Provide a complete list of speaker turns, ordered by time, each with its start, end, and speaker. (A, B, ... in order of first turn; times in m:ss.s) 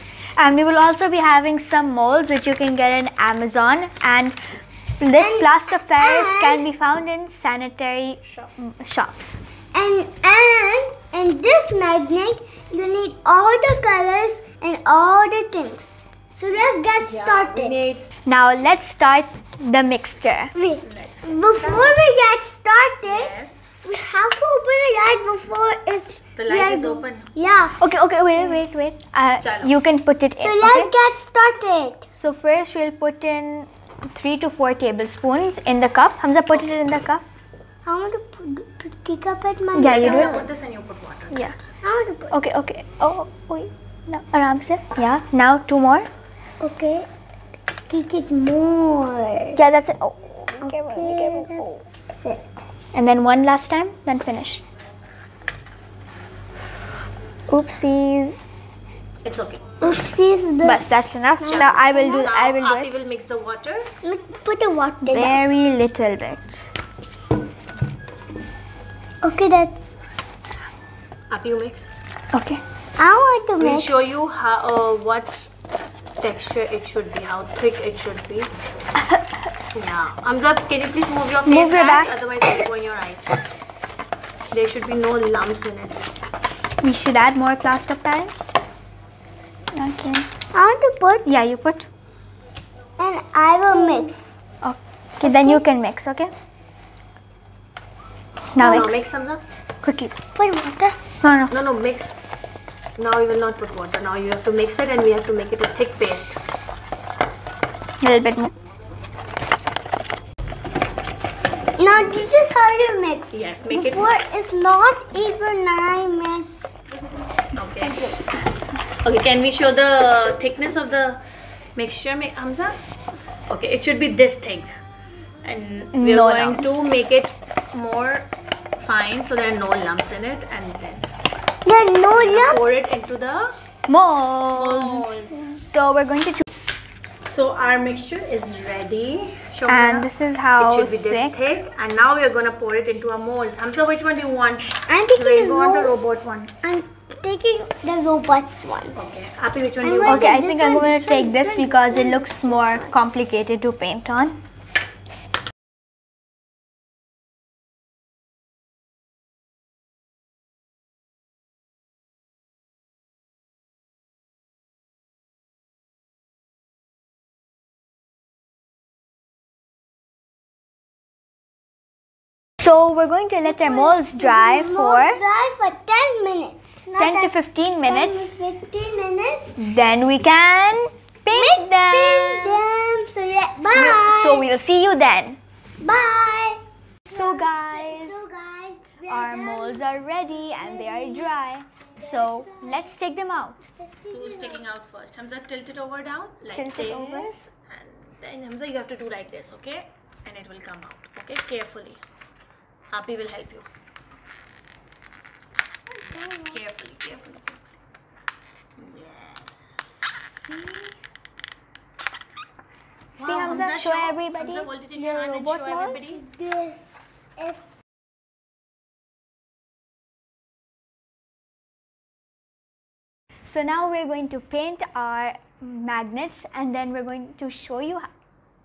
0:00.4-0:04.4 A
0:05.0-0:09.4 A
0:05.2-0:06.6 B
0:08.2-0:08.6 C
0:09.7-0:17.8 B
0:17.0-0:18.1 C
0:18.2-0:20.5 A
0:20.5-0:27.7 B
0:20.8-0:22.0 C
0:23.0-0:23.6 C
0:26.4-0:27.3 C
0:27.8-0:30.9 A
0:29.4-0:29.7 C
0:30.4-0:32.0 B
0:32.1-0:37.2 A
0:37.8-0:40.5 B
0:39.7-0:40.4 A
0:39.8-0:41.4 C
0:41.3-0:41.6 A
0:41.8-0:42.3 B
0:42.3-0:46.1 A
0:46.6-0:47.1 B
0:47.9-0:49.6 B
0:49.5-0:51.9 A
0:50.6-0:52.6 B
0:52.9-0:54.6 A
0:57.5-0:58.4 A
0:59.2-0:59.6 C
0:59.8-1:00.8 B
1:00.6-1:02.9 A
1:01.4-1:03.9 C
1:04.0-1:05.4 B
1:05.0-1:06.7 A
1:09.2-1:09.9 B
1:11.3-1:11.9 C
1:12.3-1:12.6 A
1:13.0-1:14.1 B
1:13.6-1:15.5 C
1:16.2-1:18.5 C
1:19.7-1:23.3 C
1:21.4-1:22.2 A
1:24.5-1:26.0 C
1:26.8-1:28.6 A
1:29.7-1:30.2 A
1:30.5-1:31.2 B
1:31.2-1:31.9 A
1:33.0-1:34.4 B
1:33.7-1:34.1 A
1:34.6-1:36.3 A
1:35.2-1:35.6 B
1:38.5-1:39.1 A
1:38.6-1:39.4 C
1:39.8-1:40.1 A
1:40.3-1:41.0 B
1:41.2-1:41.5 A
1:41.5-1:42.1 C
1:43.0-1:46.4 C
1:48.0-1:48.5 A
1:51.8-1:56.8 B
1:53.3-1:54.2 C
1:57.6-1:58.0 C
1:57.8-1:58.2 B
1:59.0-2:01.2 C
2:01.8-2:02.8 C
2:03.5-2:04.7 C
2:05.4-2:11.1 C
2:05.9-2:07.0 A
2:11.6-2:12.8 B
2:12.1-2:13.5 C
2:13.9-2:16.7 A
2:14.6-2:15.5 C
2:17.2-2:26.5 C
2:19.7-2:21.3 A
2:24.8-2:26.0 B
2:26.6-2:29.0 B
2:28.9-2:30.3 C
2:29.8-2:33.0 B
2:30.0-2:34.4 A
2:52.6-2:55.2 A
2:53.4-2:59.5 B
2:57.0-2:58.3 A
2:59.6-3:02.6 A
3:01.2-3:04.5 B
3:03.7-3:05.4 A
3:05.8-3:12.8 B
3:07.0-3:08.2 A
3:09.1-3:13.7 A
3:13.8-3:14.6 B
3:14.1-3:22.0 C
3:16.5-3:17.4 A
3:22.9-3:23.7 C
3:26.0-3:26.6 B
3:26.1-3:27.6 C
3:28.8-3:29.5 C
3:30.4-3:30.9 C
3:33.2-3:36.2 C
3:33.2-3:36.0 A
3:36.0-3:37.8 B
3:43.4-3:48.1 A